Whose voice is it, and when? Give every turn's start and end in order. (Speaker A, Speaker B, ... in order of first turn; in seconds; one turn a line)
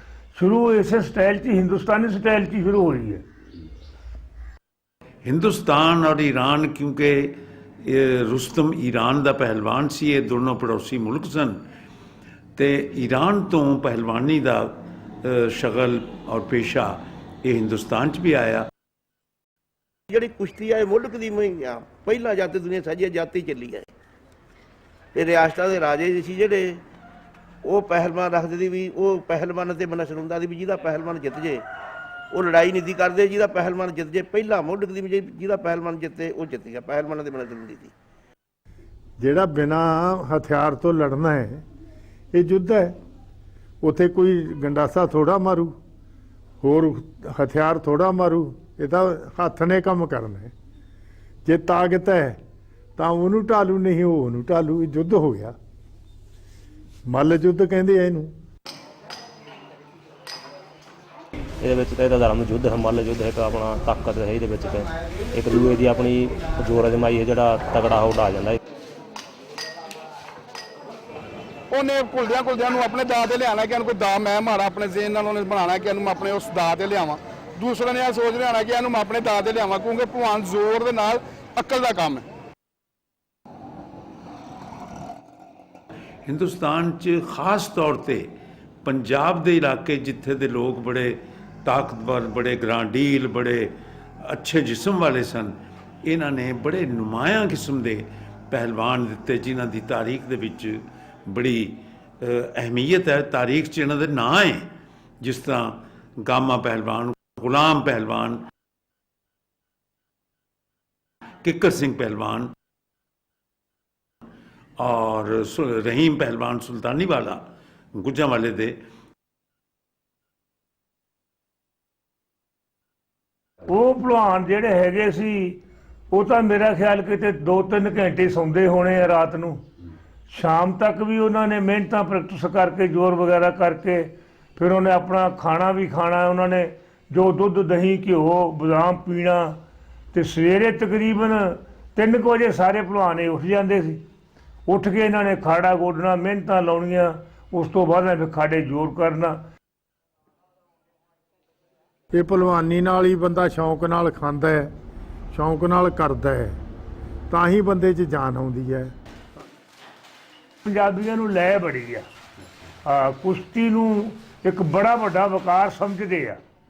Speaker A: 0.3-3.2
Speaker B: 5.2-11.6
Speaker B: 12.6-18.7
Speaker C: 20.1-23.9
Speaker C: 25.1-26.8
Speaker C: 27.6-31.6
Speaker C: 32.3-37.9
Speaker D: 39.2-41.6
Speaker D: 42.3-43.0
Speaker D: 43.8-45.8
Speaker D: 46.6-50.5
Speaker D: 51.4-52.4
Speaker D: 53.0-55.5
Speaker D: 57.1-58.3
Speaker E: 61.6-68.6
Speaker F: 71.7-82.2
Speaker B: 86.2-88.3
Speaker B: 88.8-108.5
Speaker B: 111.4-112.5
Speaker B: 114.8-118.8
Speaker A: 123.7-125.6
Speaker A: 126.1-129.6
Speaker A: 130.3-139.6
Speaker A: 140.1-144.0
Speaker A: 144.7-149.4
Speaker D: 152.1-154.7
Speaker D: 155.3-156.6
Speaker D: 157.3-158.9
Speaker A: 160.6-162.1
Speaker A: 162.8-166.4